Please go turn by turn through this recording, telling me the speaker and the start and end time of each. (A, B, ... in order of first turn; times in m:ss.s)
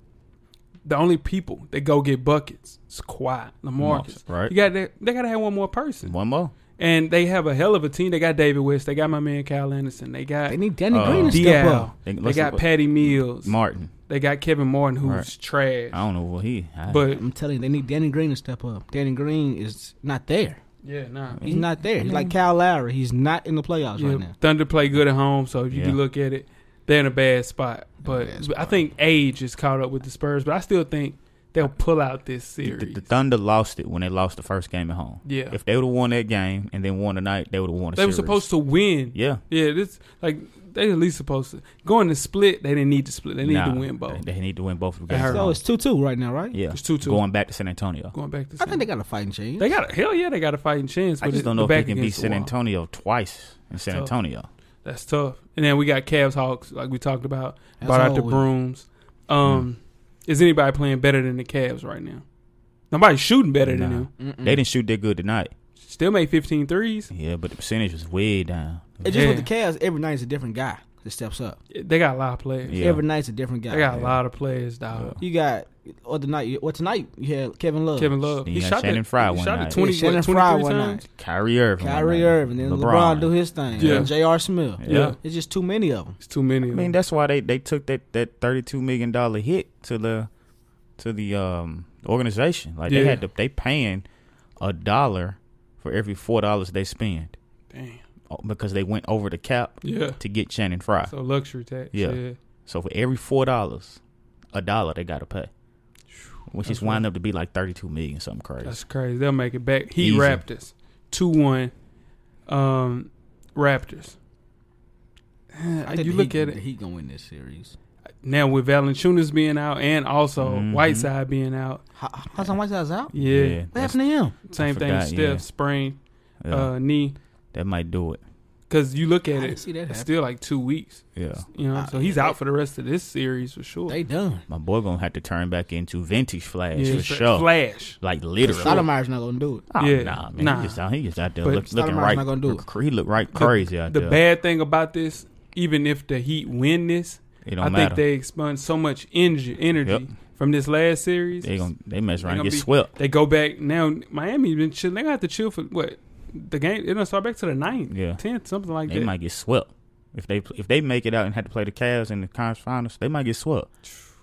0:00.8-0:06.2 A
0:03.8-0:04.6 B
0:06.0-0:06.5 B
0:06.8-0:16.0 A
0:10.5-0:11.9 C
0:10.9-0:13.9 B
0:15.0-0:15.3 B
0:15.9-0:17.1 B
0:16.9-0:17.2 A
0:17.1-0:20.6 C
0:20.8-0:21.4 A
0:21.3-0:21.7 B
0:21.4-0:24.3 C
0:24.0-0:33.1 A
0:25.7-0:26.0 B
0:28.0-0:28.8 C
0:32.6-0:38.5 B
0:35.2-0:35.6 A
0:38.0-0:44.2 A
0:39.1-0:39.4 B
0:43.4-0:45.6 B
0:45.1-0:45.5 A
0:45.2-0:46.6 C
0:46.5-0:48.1 B
0:46.7-0:47.2 A
0:48.1-0:48.9 A
0:48.6-0:49.7 C
0:49.6-0:52.5 A
0:51.2-0:54.5 B
0:54.8-1:02.2 A
0:57.8-0:58.5 C
1:02.9-1:04.1 A
1:03.6-1:05.5 B
1:04.2-1:04.6 C
1:05.8-1:07.1 A
1:07.1-1:09.3 B
1:09.0-1:11.6 C
1:09.1-1:09.5 A
1:11.7-1:12.8 A
1:12.7-1:13.0 B
1:12.8-1:14.1 C
1:13.7-1:15.2 A
1:14.9-1:15.2 B
1:15.2-1:18.2 C
1:18.0-1:21.0 A
1:18.4-1:19.8 B
1:19.7-1:21.0 C
1:21.1-1:24.1 B
1:21.8-1:26.2 C
1:23.8-1:24.1 A
1:24.8-1:25.2 B
1:24.8-1:25.2 A
1:26.2-1:26.9 A
1:26.7-1:30.3 B
1:31.0-1:34.0 B
1:32.9-1:33.2 A
1:34.6-1:37.3 B
1:37.7-1:38.0 A
1:38.3-1:41.1 B
1:39.8-1:40.2 A
1:41.1-1:42.4 A
1:41.9-1:44.0 B
1:44.5-1:45.5 B
1:46.5-1:48.8 B
1:46.6-1:47.0 A
1:48.6-1:51.7 A
1:50.0-1:50.4 B
1:52.5-1:54.2 A
1:55.5-1:56.6 A
1:55.8-1:57.8 C
1:58.2-2:01.8 A
2:00.4-2:01.1 B
2:02.0-2:03.1 C
2:03.1-2:03.6 A
2:03.1-2:05.5 B
2:03.7-2:04.4 C
2:04.5-2:06.0 A
2:06.4-2:06.8 B
2:06.5-2:07.2 A
2:07.5-2:08.2 B
2:08.7-2:14.0 A
2:09.3-2:10.1 C
2:11.2-2:11.5 B
2:11.7-2:12.4 C
2:13.9-2:14.4 C
2:14.5-2:18.9 B
2:16.7-2:18.0 A
2:18.4-2:19.7 C
2:19.7-2:24.2 B
2:19.8-2:20.8 A
2:21.7-2:22.6 C
2:23.3-2:31.6 A
2:27.4-2:28.0 B
2:29.8-2:30.1 B
2:31.4-2:32.9 B
2:32.2-2:39.1 A
2:37.9-2:38.2 B
2:38.9-2:43.7 B